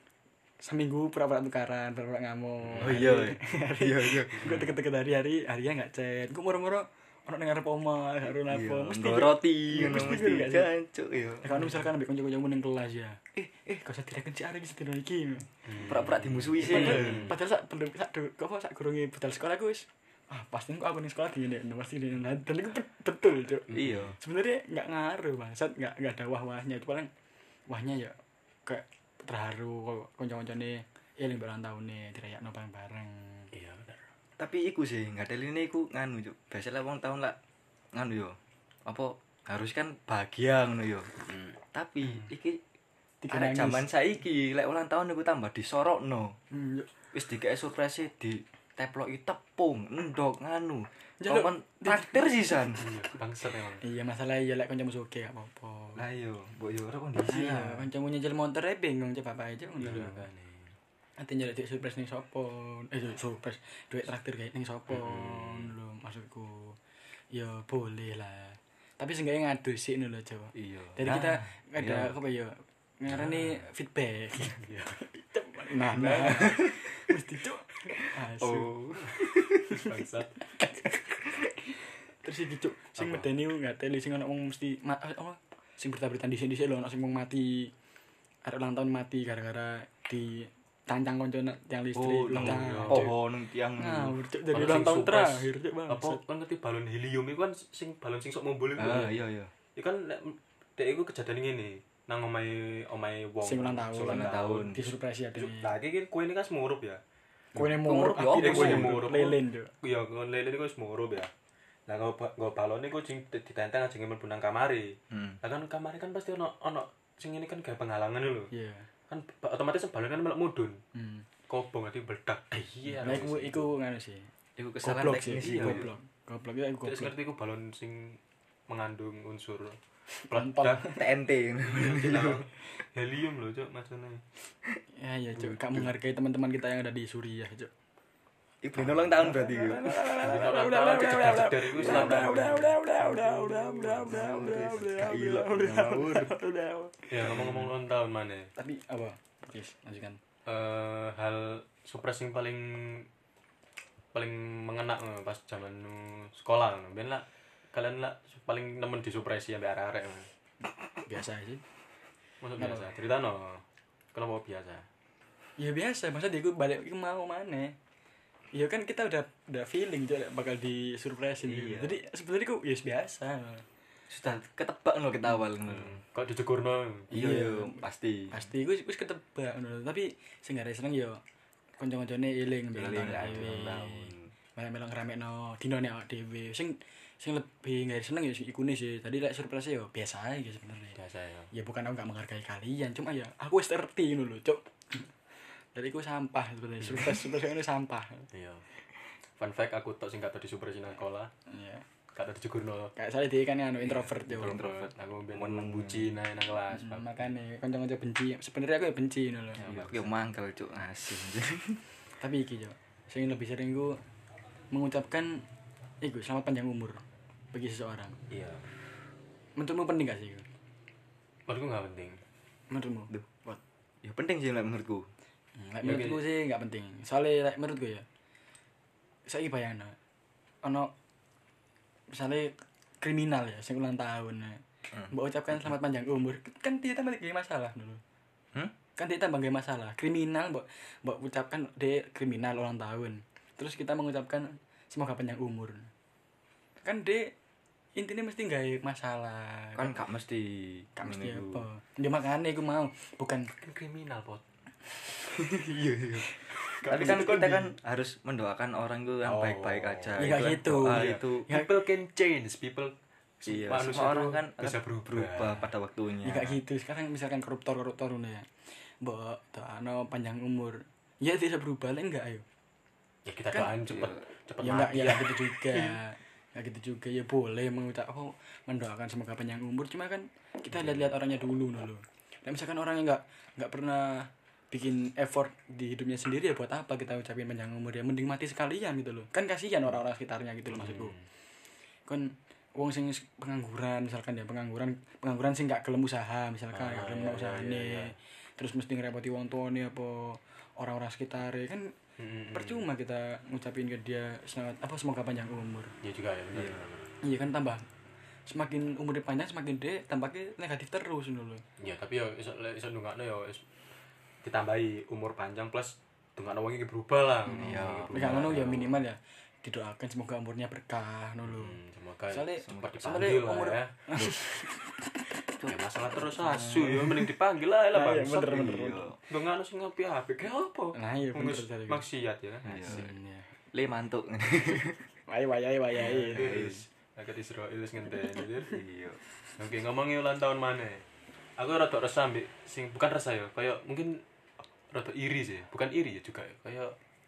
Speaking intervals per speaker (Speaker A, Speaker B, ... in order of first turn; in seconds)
Speaker A: 0.6-10.7, 11.4-15.5, 16.6-27.1, 27.7-33.5, 43.2-43.9, 46.5-46.9, 51.2-52.8, 53.8-56.0, 57.2-60.2, 61.2-66.8, 67.3-78.8, 79.4-79.8, 80.6-81.5, 82.2-87.7, 88.5-93.1, 93.8-96.2, 103.4-105.7, 107.5-109.7, 118.5-118.9, 120.9-121.3, 123.0-124.3, 124.8-127.1, 130.2-131.0, 135.0-137.7, 138.8-147.5, 148.6-150.2, 161.1-161.6, 162.6-162.9, 165.6-167.8, 168.5-173.6, 177.1-177.8, 178.3-181.2, 181.8-191.0, 191.5-195.1, 195.7-198.3, 201.5-201.8, 203.0-204.6, 206.7-209.7, 212.2-214.0, 214.7-215.5, 216.0-218.2, 219.6-220.5, 222.7-223.6, 225.6-228.1, 229.3-230.0, 230.6-230.9, 232.1-238.0, 239.0-245.9, 246.8-247.3, 248.0-249.9, 251.0-253.5, 256.6-257.5, 260.2-261.7, 266.2-272.4, 274.6-291.1, 292.1-301.9, 302.5-305.9, 307.2-307.9, 308.5-311.6, 317.5-321.8, 322.3-325.2, 326.5-327.2, 327.9-329.1, 330.9-332.0, 332.8-333.5, 335.3-336.5
Speaker B: 2.7-3.0, 4.4-4.7, 15.7-17.4, 23.7-24.0, 33.5-34.1, 41.2-41.6, 52.8-53.8, 59.8-60.8, 64.9-65.7, 73.2-73.6, 74.5-75.0, 76.0-76.4, 79.6-80.4, 83.0-83.3, 92.3-93.2, 94.5-99.2, 99.8-107.0, 108.3-111.3, 111.9-118.5, 119.1-120.8, 121.5-123.7, 125.6-125.8, 126.8-129.8, 130.3-130.9, 131.6-134.2, 140.2-142.8, 147.1-148.5, 150.5-153.1, 154.1-160.3, 162.4-163.6, 164.1-164.9, 175.6-177.1, 191.0-191.5, 196.9-197.2, 198.3-198.7, 199.4-201.3, 202.1-202.9, 203.9-207.1, 209.6-210.1, 218.3-218.6, 221.5-222.2, 225.8-226.2, 253.6-254.4, 256.8-257.7, 259.2-265.7, 273.3-276.0, 290.7-291.3, 296.7-298.1, 302.2-302.9, 306.0-307.1, 311.8-313.6, 314.4-318.9, 321.5-324.3, 325.6-333.1, 336.0-338.8, 339.6-341.0, 341.6-344.2, 344.9-346.9
Speaker C: 2.8-4.6, 8.5-11.6, 15.8-17.3, 23.7-24.2, 34.4-37.4, 37.9-41.1, 41.7-42.6, 43.3-46.4, 47.1-52.9, 56.0-57.9, 70.6-72.2, 76.1-76.8, 78.3-79.7, 92.0-94.1, 98.8-99.5, 104.0-104.9, 107.6-109.0, 115.1-115.4, 124.6-125.9, 130.9-132.4, 135.4-135.9, 138.6-140.2, 141.7-146.3, 147.2-147.7, 171.4-172.0, 174.1-176.0, 177.1-178.4, 182.8-184.3, 204.3-206.1, 209.6-211.8, 224.0-225.1, 249.8-251.7, 255.3-256.3, 256.8-261.5, 263.5-266.6, 273.9-274.2, 306.5-306.9, 317.6-318.9, 322.6-323.1, 325.6-327.0, 328.5-329.2, 332.7-333.1, 333.7-335.0, 336.3-336.9, 338.7-339.2